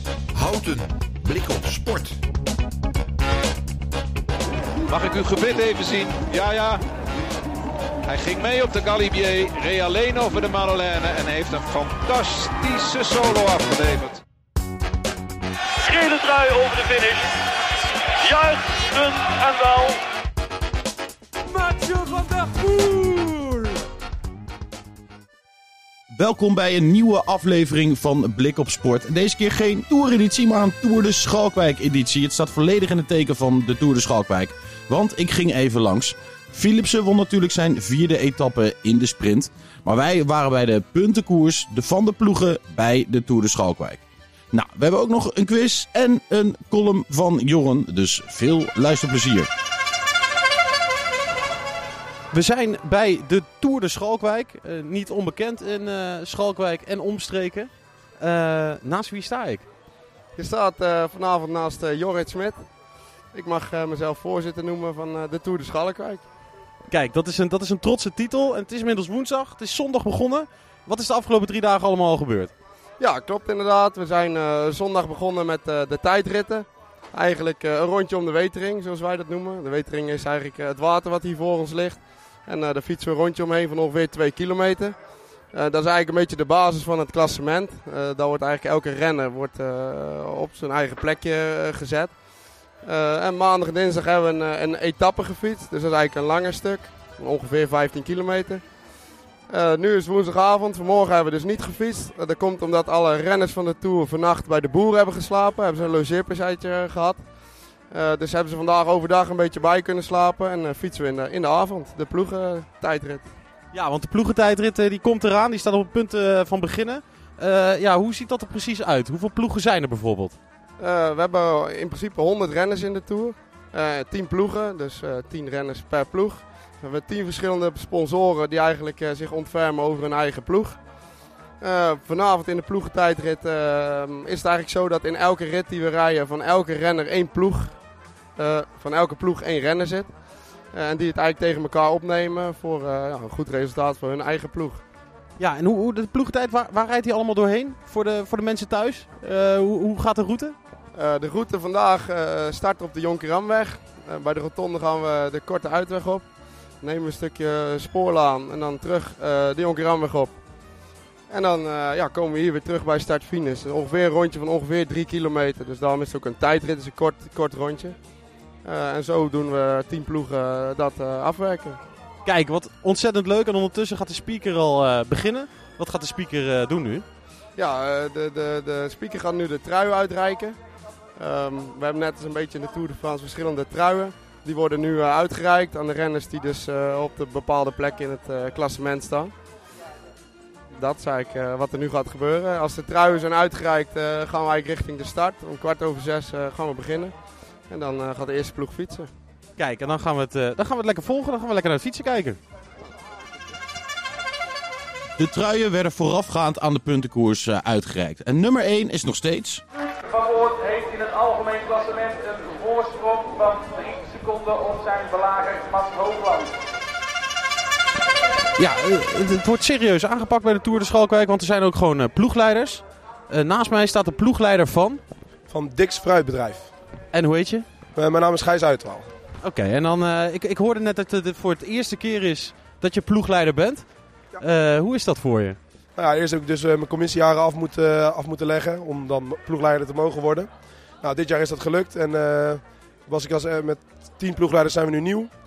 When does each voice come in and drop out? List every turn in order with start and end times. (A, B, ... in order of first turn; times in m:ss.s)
0:04.9-0:06.8 A
0:08.1-0:14.2 A
0:16.0-0:17.1 B
0:18.4-0:19.9 B
0:26.2-0:49.5 C
0:52.3-0:59.6 C
1:00.4-1:02.7 D
1:03.3-1:06.2 D
1:06.9-1:12.5 C
1:13.0-1:25.0 D
1:25.5-1:32.2 D
1:32.8-1:38.7 D
1:39.5-1:47.2 D
1:47.9-1:53.3 D
1:53.7-2:00.4 C
2:00.8-2:10.8 D
2:11.6-2:17.8 D
2:18.4-2:20.1 D
2:20.7-2:24.8 D
2:25.4-2:30.6 C
2:30.9-2:36.3 D
2:36.8-2:40.4 D
2:41.3-2:48.0 D
2:48.6-2:51.8 D
2:52.2-2:57.1 C
2:57.6-3:00.6 D
3:01.2-3:09.3 D
3:10.7-3:17.2 D
3:17.7-3:19.1 D
3:19.6-3:22.4 C
3:25.2-3:29.6 C
3:30.0-3:36.5 E
3:38.6-3:45.0 C
3:45.5-3:46.7 F
3:47.1-3:47.7 C
3:48.0-3:49.1 F
3:49.4-3:53.9 C
3:54.4-3:55.6 C
3:56.0-4:00.5 F
4:01.0-4:05.3 F